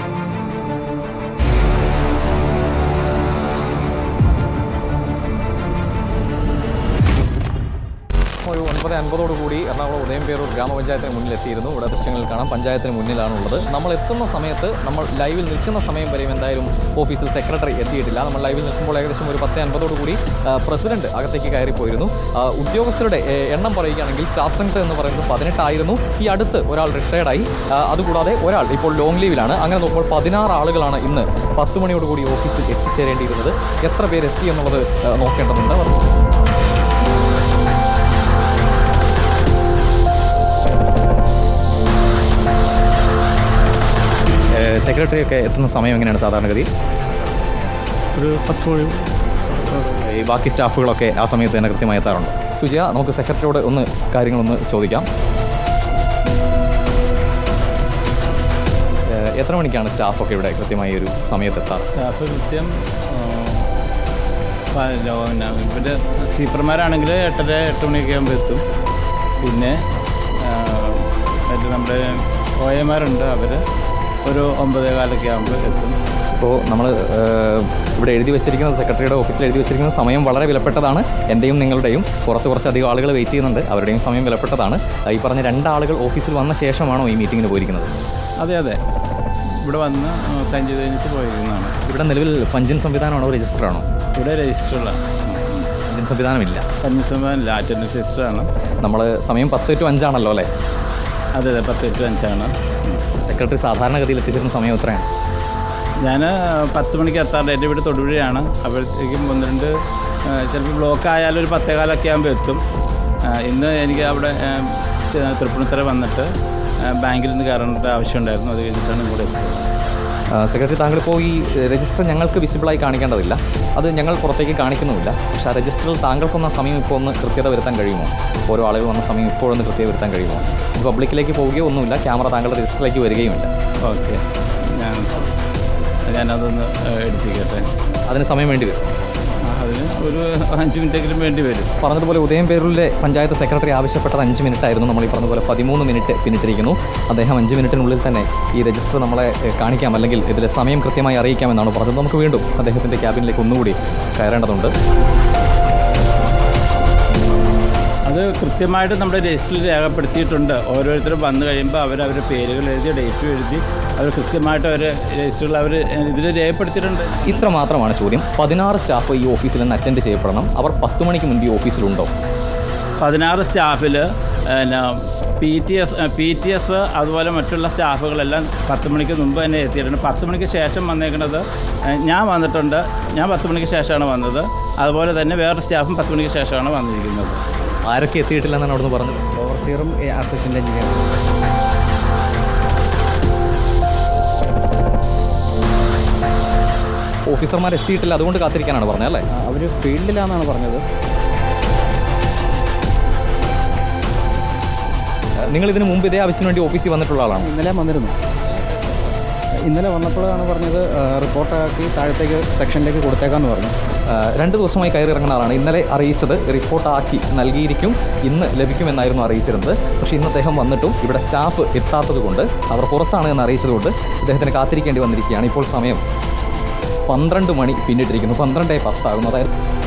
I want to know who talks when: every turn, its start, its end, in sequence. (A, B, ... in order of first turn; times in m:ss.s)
0:08.4-0:36.0 A
0:44.5-0:46.7 A
0:48.2-0:49.0 B
0:49.8-0:55.1 A
0:59.1-1:01.8 A
1:02.0-1:03.7 C
1:04.7-1:08.6 C
1:09.4-1:09.8 C
1:10.4-1:13.6 C
1:14.2-1:15.9 C
1:16.3-1:27.9 A
1:28.4-1:28.8 C
1:29.6-1:31.8 C
1:31.9-1:33.8 A
1:34.2-1:35.7 C
1:35.9-1:36.7 A
1:36.8-1:38.5 C
1:38.8-1:40.5 A
1:41.3-1:43.0 C
1:43.2-1:45.1 A
1:46.0-1:49.7 C
1:50.2-1:52.6 C
1:53.2-1:56.3 C
1:56.8-1:59.7 C
2:00.3-2:13.5 A
2:13.8-2:15.2 C
2:16.1-2:17.7 C
2:18.1-2:18.9 A
2:19.4-2:21.7 C
2:21.8-2:34.7 A
2:38.1-2:47.4 C
2:47.2-2:52.1 A
2:53.0-3:07.4 C
3:07.8-3:09.2 A
3:09.3-3:11.1 B
3:17.3-3:19.2 A
3:19.3-3:20.8 B
3:25.5-3:27.5 A
3:27.4-3:33.8 B
3:34.1-3:46.0 A
3:47.1-3:49.5 A